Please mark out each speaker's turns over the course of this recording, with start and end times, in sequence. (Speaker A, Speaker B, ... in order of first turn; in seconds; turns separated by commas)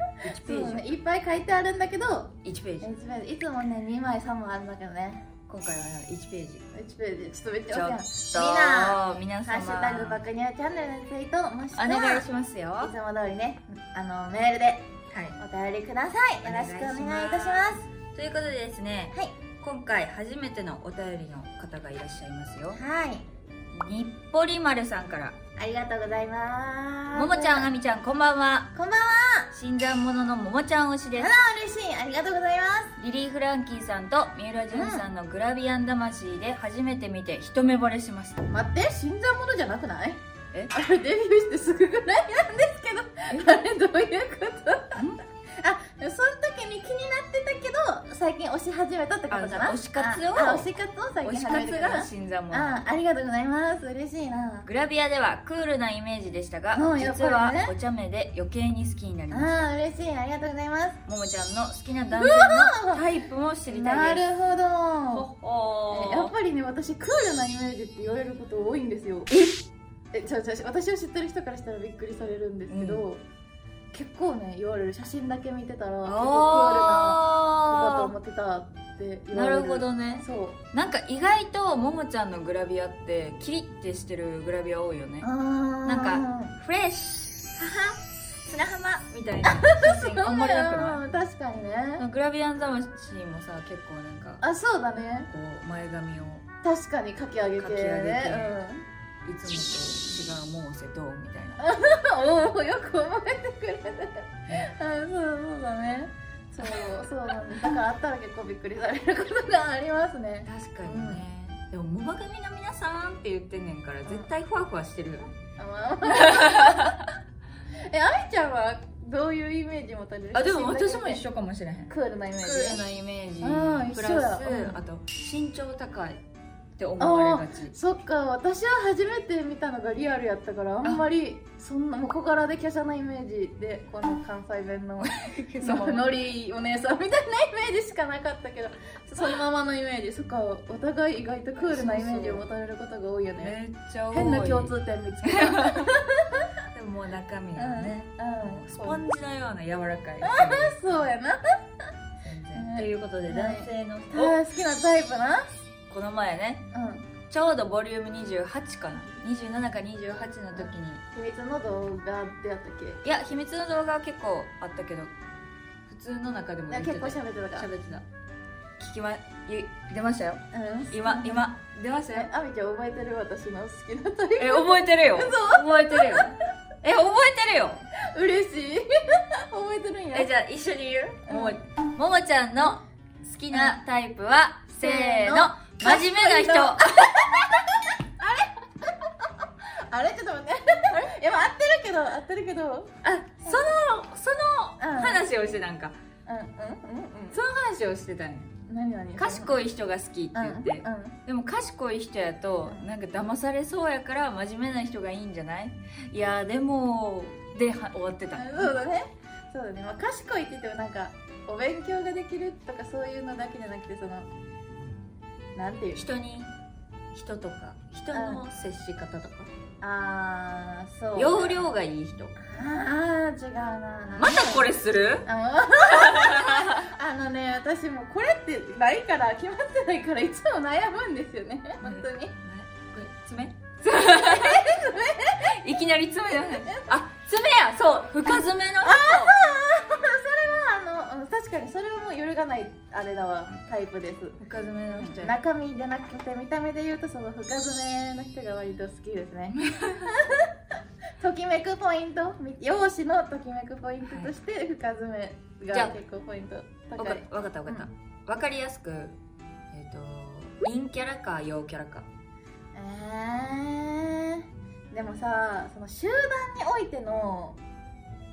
Speaker A: 0.2-0.9, Speaker B: 0.4-5.3, Speaker A: 2.4-2.9, Speaker A: 5.5-6.7, Speaker B: 6.7-12.3, Speaker A: 7.7-10.2, Speaker A: 11.8-12.9, Speaker B: 12.8-14.9, Speaker A: 15.1-15.4, Speaker B: 15.4-17.8, Speaker A: 16.4-22.8, Speaker B: 22.7-23.3, Speaker A: 23.7-25.4, Speaker B: 25.6-27.7, Speaker A: 27.1-28.7, Speaker B: 28.8-29.5, Speaker A: 29.5-31.3, Speaker B: 31.2-33.0, Speaker A: 33.0-38.4, Speaker B: 34.7-35.1, Speaker B: 38.5-40.2, Speaker B: 40.7-45.1, Speaker A: 45.0-45.2, Speaker B: 45.6-54.7, Speaker A: 49.3-50.7, Speaker A: 51.2-52.8, Speaker A: 54.7-59.7, Speaker B: 56.8-57.7, Speaker B: 59.3-61.0, Speaker A: 61.1-64.3, Speaker B: 62.1-63.0, Speaker B: 63.7-65.3, Speaker A: 65.1-66.3, Speaker B: 65.9-69.3, Speaker A: 69.3-69.7, Speaker B: 70.1-73.2, Speaker A: 72.7-73.0, Speaker B: 73.9-80.6, Speaker A: 76.0-78.1, Speaker A: 79.3-85.3, Speaker B: 85.2-86.5, Speaker A: 85.8-91.0, Speaker B: 89.5-92.0, Speaker A: 92.0-94.4, Speaker B: 94.4-95.3, Speaker A: 95.3-96.5, Speaker B: 96.6-98.8, Speaker A: 97.6-98.6, Speaker A: 99.2-101.6, Speaker B: 101.6-111.2, Speaker A: 106.6-106.9, Speaker A: 110.5-115.3, Speaker B: 115.6-117.0, Speaker A: 116.1-117.0, Speaker B: 117.9-121.2, Speaker A: 120.3-126.2, Speaker B: 121.9-122.8, Speaker B: 123.4-124.8, Speaker A: 126.8-127.8, Speaker B: 127.0-143.6, Speaker A: 135.0-136.1, Speaker A: 141.6-142.4, Speaker A: 143.4-146.0, Speaker B: 144.1-146.5, Speaker A: 146.7-151.1, Speaker B: 147.6-149.0, Speaker B: 150.2-151.9, Speaker A: 152.2-154.4, Speaker B: 152.6-155.5, Speaker A: 155.9-156.7, Speaker B: 156.7-157.1, Speaker A: 157.3-161.0, Speaker B: 160.6-163.0, Speaker A: 163.0-165.1, Speaker A: 165.9-168.1, Speaker B: 166.7-167.7, Speaker A: 168.8-172.3, Speaker B: 170.5-171.5, Speaker B: 172.1-176.3, Speaker A: 174.4-177.8, Speaker B: 178.1-180.3, Speaker A: 180.1-187.2, Speaker B: 181.3-181.6, Speaker B: 183.5-183.8, Speaker B: 184.8-189.3, Speaker B: 189.9-192.9, Speaker A: 193.0-196.0, Speaker B: 193.4-193.8, Speaker B: 194.8-195.3, Speaker B: 196.3-197.4, Speaker A: 197.3-198.5, Speaker B: 198.7-199.6, Speaker A: 199.2-208.8, Speaker B: 200.3-201.2, Speaker B: 208.3-214.3, Speaker B: 215.6-216.1, Speaker A: 216.0-216.5, Speaker A: 217.1-219.5, Speaker B: 218.1-218.4, Speaker B: 219.8-221.7, Speaker A: 221.2-222.4, Speaker B: 222.4-224.7, Speaker A: 224.2-225.3, Speaker B: 225.2-232.3, Speaker A: 225.9-226.9, Speaker A: 231.8-234.8, Speaker B: 234.1-235.4, Speaker A: 235.3-239.4, Speaker B: 236.4-237.0, Speaker B: 238.8-244.4, Speaker A: 244.4-245.4, Speaker B: 245.0-249.6, Speaker A: 249.6-250.2, Speaker B: 250.1-250.6, Speaker B: 251.2-257.9, Speaker A: 254.1-254.3, Speaker A: 255.7-256.0, Speaker A: 257.0-259.2, Speaker A: 259.7-262.1, Speaker B: 262.7-267.6